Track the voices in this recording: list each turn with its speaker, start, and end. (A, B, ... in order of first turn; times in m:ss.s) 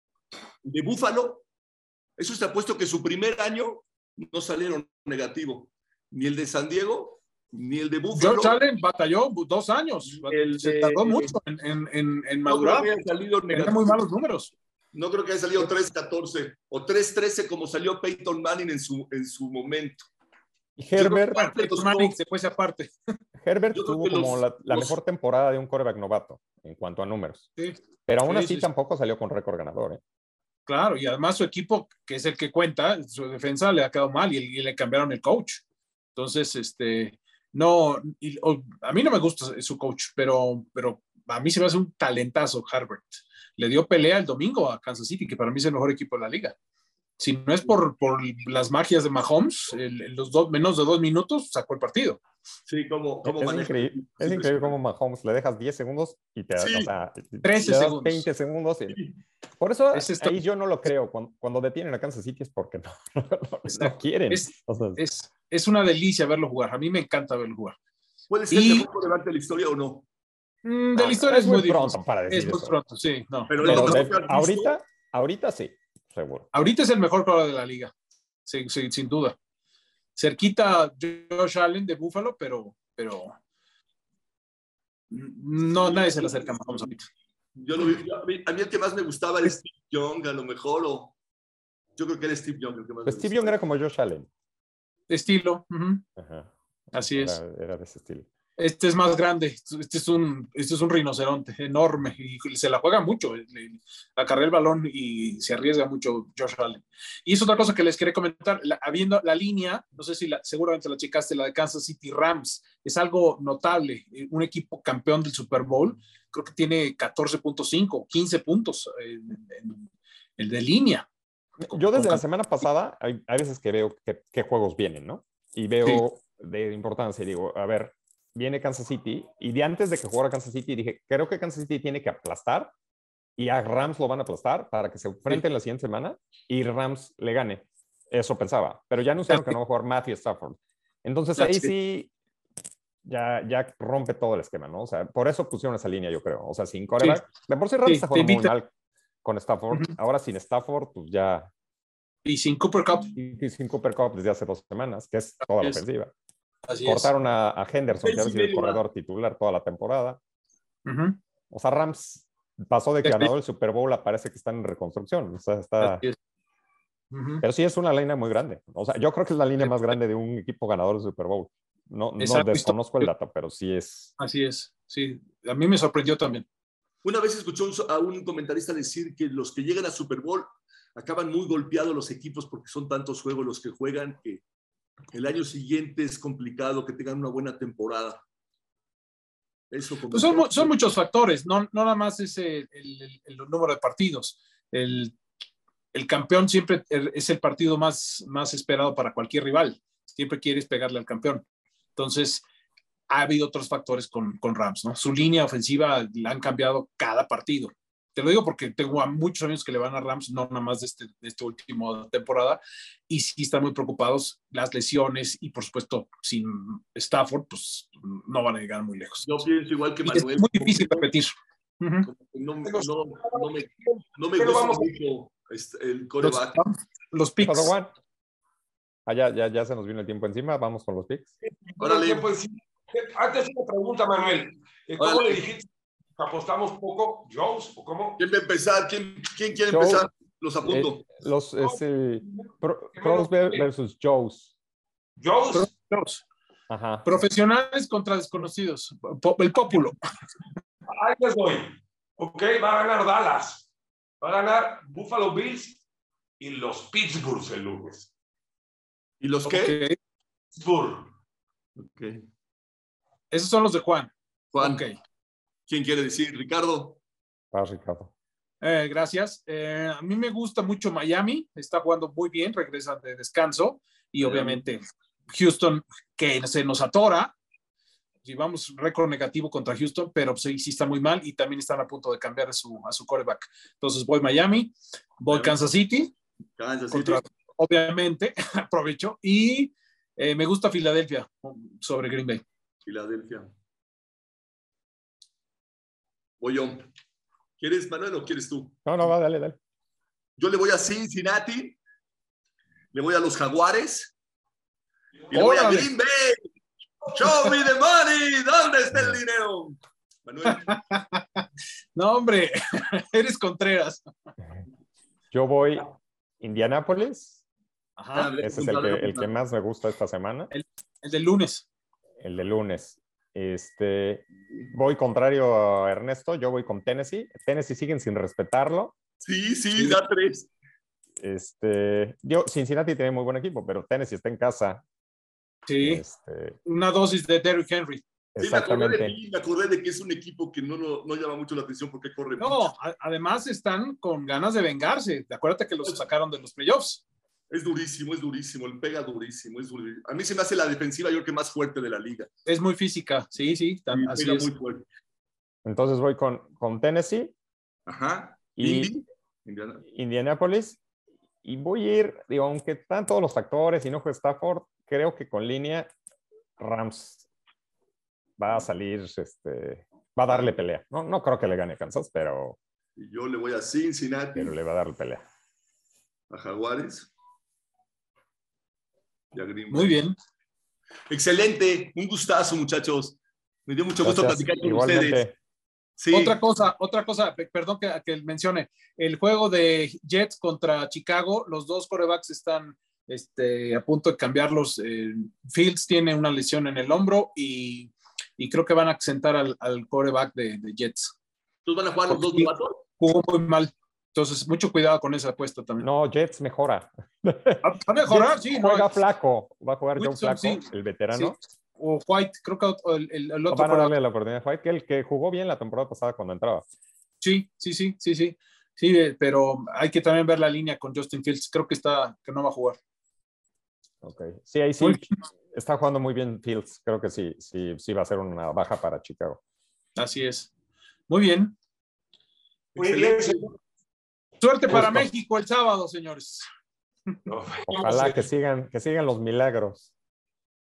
0:00.6-0:01.4 A
0:02.2-0:08.6 A
0:08.1-0:12.9 B
0:10.1-0:11.4 A
0:12.5-0:14.0 A
0:13.5-0:14.5 B
0:14.9-0:20.1 A
0:20.8-0:21.4 C
0:21.0-0:22.2 A
0:21.3-0:22.9 B
0:23.4-0:27.5 C
0:23.7-0:25.0 A
0:27.6-0:28.7 B
0:28.1-0:30.0 C
0:30.7-0:35.6 B
0:36.2-0:46.6 B
0:47.2-0:52.2 B
0:52.7-0:54.8 A
0:53.2-0:59.0 C
0:56.6-0:56.9 A
0:57.4-0:58.3 B
0:58.9-0:59.2 A
0:59.6-1:05.0 C
0:59.9-1:00.4 B
1:03.7-1:07.8 B
1:08.3-1:10.1 A
1:08.5-1:08.9 B
1:10.6-1:14.1 B
1:11.0-1:12.8 C
1:13.5-1:14.7 A
1:13.6-1:16.5 C
1:16.5-1:17.9 B
1:18.5-1:19.4 B
1:20.2-1:23.4 B
1:25.1-1:27.1 B
1:25.6-1:27.0 A
1:27.6-1:31.1 A
1:32.0-1:33.5 A
1:33.1-1:34.3 C
1:35.1-1:36.0 B
1:36.2-1:38.3 C
1:36.9-1:37.4 B
1:38.6-2:01.1 B
2:01.6-2:12.7 C
2:01.7-2:02.2 B
2:13.4-2:22.1 C
2:21.4-2:21.7 B
2:23.0-2:28.7 C
2:27.8-2:28.6 B
2:29.2-2:31.5 C
2:32.2-2:33.1 B
2:33.2-2:36.1 C
2:36.6-2:37.1 B
2:36.8-2:40.2 C
2:38.0-2:38.8 A
2:40.8-2:41.2 B
2:41.5-2:46.0 C
2:43.0-2:43.3 B
2:45.8-2:46.2 B
2:47.1-2:47.4 B
2:47.4-2:54.1 C
2:52.2-2:53.1 B
2:54.2-2:56.4 B
2:57.0-3:04.4 A
3:05.1-3:08.2 A
3:09.7-3:10.7 A
3:10.1-3:15.2 B
3:15.9-3:21.4 B
3:22.0-3:22.4 B
3:23.1-3:39.4 B
3:39.2-3:41.1 A
3:40.1-3:42.1 B
3:42.0-3:46.6 A
3:42.6-3:44.9 D
3:46.2-3:47.7 B
3:47.4-3:47.9 C
3:49.1-3:51.3 C
3:51.4-3:58.2 D
3:51.8-3:52.3 A
3:55.0-3:55.4 A
3:58.2-4:01.1 A
3:59.7-4:00.1 C
4:00.6-4:04.5 C
4:01.6-4:03.7 D
4:05.2-4:05.7 D
4:05.5-4:06.2 B
4:06.7-4:07.1 C
4:07.0-4:10.0 B
4:10.9-4:13.7 D
4:14.2-4:15.8 D
4:16.4-4:18.1 D
4:19.2-4:19.8 A
4:19.5-4:20.0 B
4:20.6-4:21.1 D
4:21.8-4:22.2 A
4:23.3-4:25.0 B
4:24.5-4:24.8 A
4:25.7-4:27.0 A
4:27.5-4:28.1 C
4:28.6-4:37.3 B
4:34.2-4:34.6 A
4:38.2-4:46.1 B
4:45.3-4:45.6 A
4:46.6-4:47.2 A
4:46.9-4:52.4 B
4:52.8-4:53.5 A
4:56.4-4:56.9 A
4:57.6-4:58.8 A
4:58.9-4:59.6 C
5:00.4-5:01.8 A
5:02.9-5:04.1 A
5:05.3-5:06.5 A
5:05.3-5:05.9 B
5:07.0-5:10.8 A
5:10.4-5:11.4 B
5:12.0-5:14.0 B
5:15.3-5:17.4 C
5:18.0-5:18.3 B
5:18.1-5:19.3 A
5:18.4-5:20.5 C
5:20.5-5:21.7 B
5:22.2-5:29.0 C
5:29.2-5:30.5 A
5:29.8-5:30.0 C
5:31.2-5:34.8 C
5:35.7-5:36.0 B
5:35.8-5:36.6 C
5:36.6-5:38.0 B
5:38.4-5:39.2 C
5:38.4-5:42.7 A
5:42.4-5:47.0 B
5:47.5-5:52.3 A
5:52.5-5:54.5 B
5:53.9-5:54.9 A
5:55.6-5:57.3 C
5:57.9-5:59.8 A
5:58.6-5:58.9 C
5:59.8-6:00.8 C
6:01.4-6:05.9 C
6:06.6-6:07.2 C
6:08.4-6:12.6 C
6:13.0-6:14.5 A
6:14.4-6:15.2 C
6:16.3-6:17.1 A
6:19.3-6:20.0 A
6:19.7-6:20.2 B
6:21.1-6:25.2 A
6:24.0-6:25.4 C
6:26.0-6:26.4 A
6:26.1-6:41.1 B
6:41.6-6:42.8 A
6:42.1-6:45.9 B
6:45.8-6:51.4 C
6:47.6-6:48.9 B
6:50.0-6:54.0 B
6:53.5-6:56.6 C
6:57.2-7:02.8 B
7:04.0-7:09.4 C
7:04.8-7:05.2 B
7:10.0-7:10.5 B
7:11.1-7:11.6 B
7:12.8-7:13.5 D
7:12.8-7:13.6 A
7:14.4-7:16.5 B
7:14.7-7:15.1 C
7:17.3-7:18.3 D
7:17.7-7:19.9 C